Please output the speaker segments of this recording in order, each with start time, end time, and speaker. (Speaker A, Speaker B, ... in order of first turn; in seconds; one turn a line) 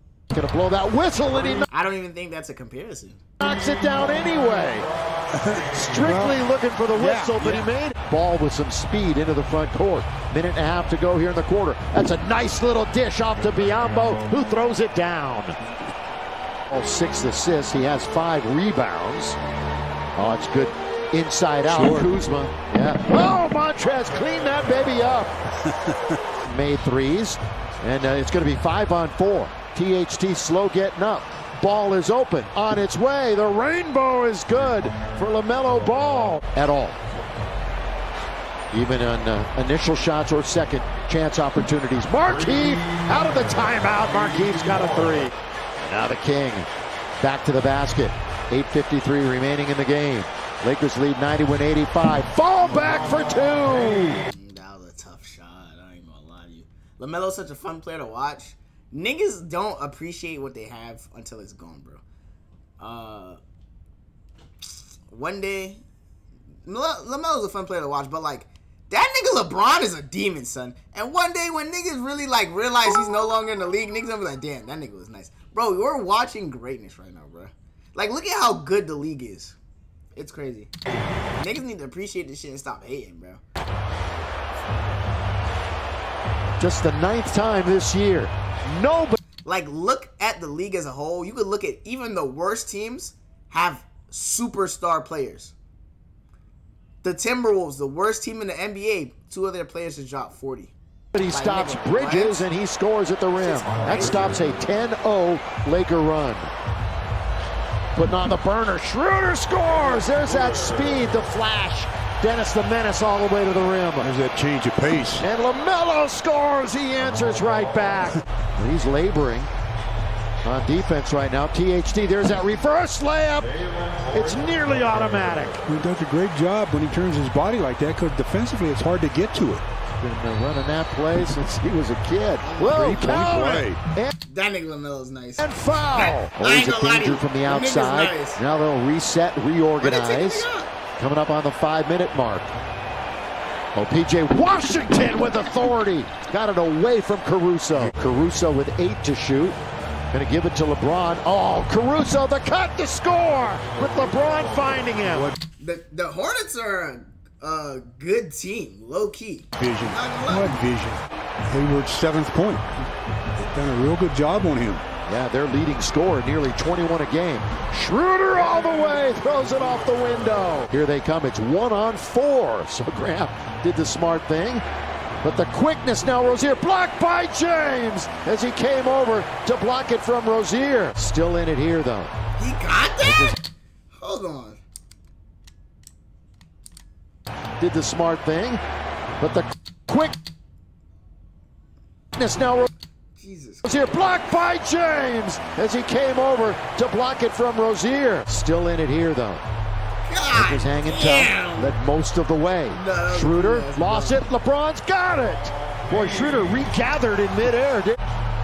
Speaker A: 0.3-1.6
Speaker B: 1.7-3.2
Speaker A: 3.4-4.9
Speaker C: 5.3-6.4
Speaker A: 5.7-15.6
Speaker C: 6.9-7.7
Speaker A: 16.7-19.4
Speaker A: 20.2-25.3
Speaker C: 21.6-22.1
Speaker C: 25.6-26.2
Speaker A: 26.4-37.0
Speaker A: 38.7-46.7
Speaker A: 47.2-54.2
Speaker B: 54.3-62.0
Speaker B: 62.8-63.4
Speaker B: 65.1-65.8
Speaker B: 66.7-79.6
Speaker B: 80.2-80.7
Speaker B: 81.3-83.4
Speaker A: 86.6-89.2
Speaker B: 89.4-95.5
Speaker B: 97.0-100.7
Speaker A: 101.1-106.5
Speaker B: 101.3-102.5
Speaker B: 103.4-104.3
Speaker A: 107.9-114.1
Speaker C: 114.0-115.2
Speaker A: 115.2-119.5
Speaker A: 120.4-123.5
Speaker A: 124.1-125.6
Speaker C: 125.6-129.6
Speaker A: 130.0-134.1
Speaker B: 132.4-133.1
Speaker C: 132.7-133.8
Speaker B: 134.2-138.4
Speaker A: 135.4-142.5
Speaker B: 139.8-140.7
Speaker A: 143.7-149.6
Speaker A: 150.1-155.3
Speaker C: 155.1-155.4
Speaker B: 155.6-160.6
Speaker C: 159.6-162.8
Speaker C: 163.3-164.8
Speaker A: 165.1-174.6
Speaker A: 175.2-182.1
Speaker B: 182.4-183.4
Speaker A: 183.0-183.3
Speaker B: 183.9-184.6
Speaker A: 187.6-188.6
Speaker A: 189.2-190.1
Speaker A: 192.1-192.7
Speaker B: 193.2-193.8
Speaker A: 193.6-199.4
Speaker B: 200.0-201.7
Speaker A: 200.3-208.0
Speaker B: 202.7-204.3